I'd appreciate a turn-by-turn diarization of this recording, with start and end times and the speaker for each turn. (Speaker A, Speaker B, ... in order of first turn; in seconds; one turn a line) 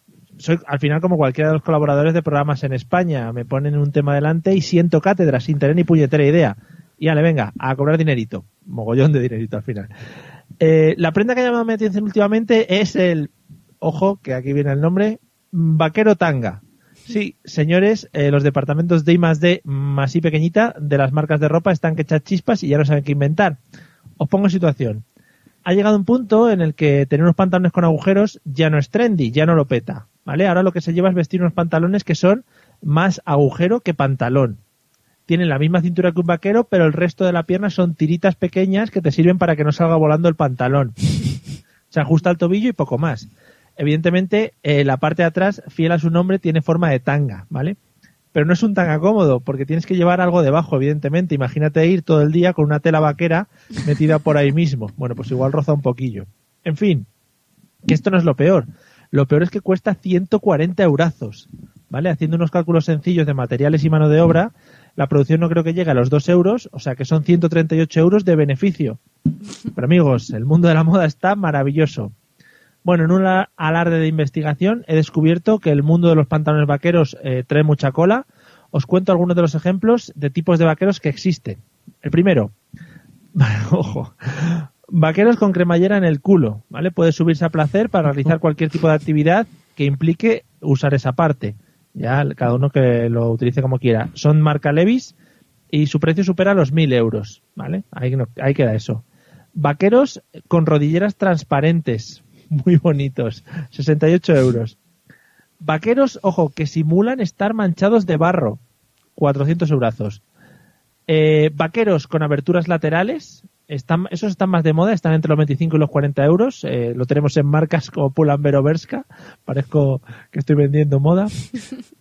Speaker A: 0.4-9.9
Speaker A: 10.6-23.6
Speaker A: 24.2-25.0
Speaker A: 25.6-34.6
Speaker A: 35.3-41.0
Speaker A: 41.9-47.8
Speaker A: 48.3-57.1
Speaker A: 57.8-69.0
Speaker A: 69.7-72.1
Speaker A: 72.8-82.5
Speaker A: 83.3-95.1
Speaker A: 95.7-99.0
Speaker A: 99.5-104.8
Speaker A: 105.6-108.6
Speaker A: 109.2-110.2
Speaker A: 111.1-121.4